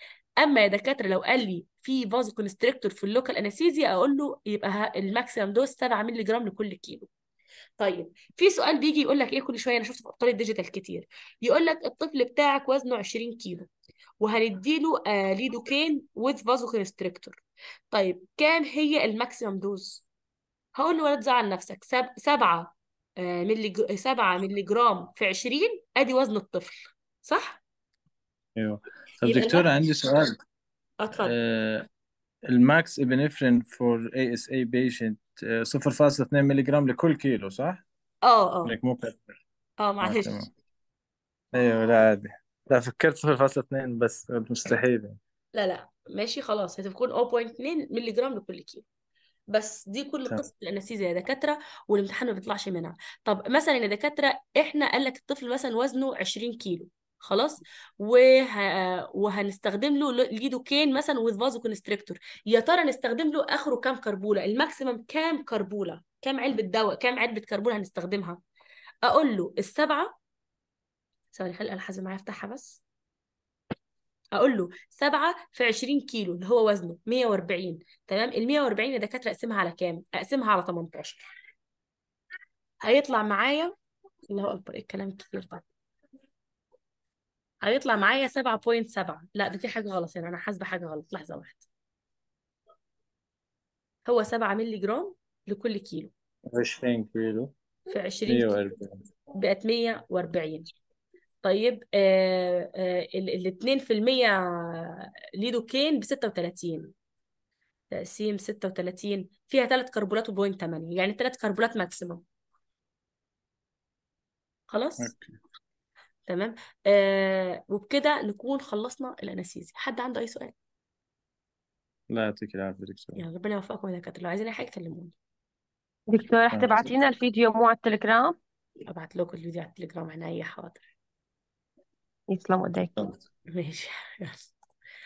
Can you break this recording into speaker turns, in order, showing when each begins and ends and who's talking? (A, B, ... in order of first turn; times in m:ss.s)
0:00.4-0:07.1 A
0:07.8-0:13.7 A
0:14.2-0:17.4 A
0:17.9-0:20.0 A
0:20.8-0:27.6 A
0:28.6-0:30.3 B
0:29.2-0:29.7 A
0:31.0-0:31.3 A
0:31.2-0:31.9 B
0:32.5-0:37.8 B
0:38.2-0:38.8 A
0:38.6-0:39.2 B
0:39.8-0:40.5 A
0:40.0-0:40.5 B
0:41.5-0:45.2 B
0:45.5-0:48.8 A
0:49.5-1:08.4 A
1:09.0-1:10.2 A
1:11.3-1:12.8 A
1:14.4-1:21.3 A
1:22.8-1:23.7 A
1:24.3-1:25.6 A
1:27.6-1:31.7 A
1:34.1-1:36.1 A
1:36.5-1:37.5 B
1:37.9-1:38.5 A
1:38.3-1:39.0 B
1:39.4-1:40.7 A
1:41.4-1:46.9 A
1:47.9-1:52.2 A
1:54.7-1:55.1 A
1:55.0-1:55.3 B
1:56.2-2:00.5 A
2:02.1-2:03.2 B
2:03.2-2:05.1 A
2:06.1-2:08.4 C
2:06.5-2:07.0 B
2:08.9-2:10.8 A
2:12.3-2:13.0 C
2:13.5-2:14.5 A